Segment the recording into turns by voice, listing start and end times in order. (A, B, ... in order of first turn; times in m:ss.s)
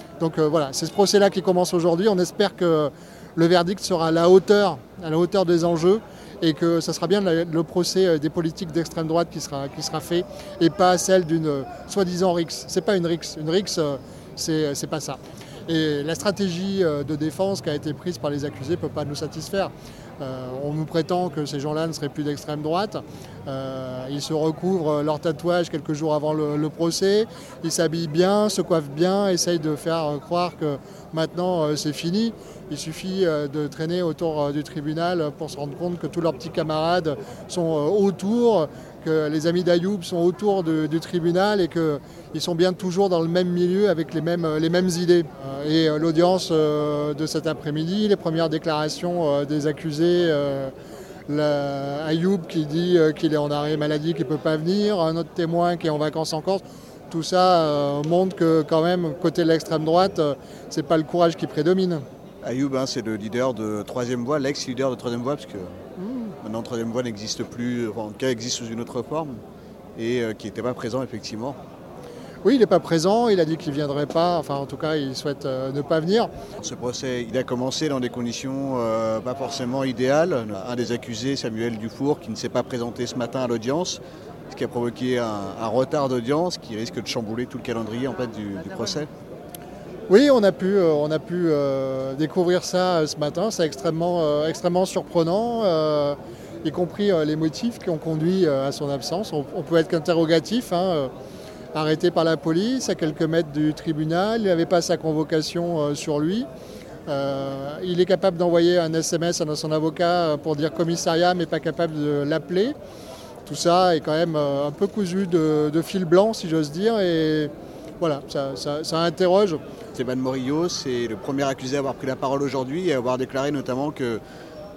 0:00.2-0:50.7 A
0:51.3-1:02.0 A
1:02.4-1:05.8 B
1:06.0-1:06.3 A
1:06.4-1:09.4 B
1:10.0-1:11.6 B
1:12.4-1:16.3 A
1:16.6-1:29.1 B
1:30.1-1:41.1 A
1:41.7-1:46.5 A
1:47.1-1:52.8 A
1:53.4-1:59.6 A
1:59.9-2:04.2 B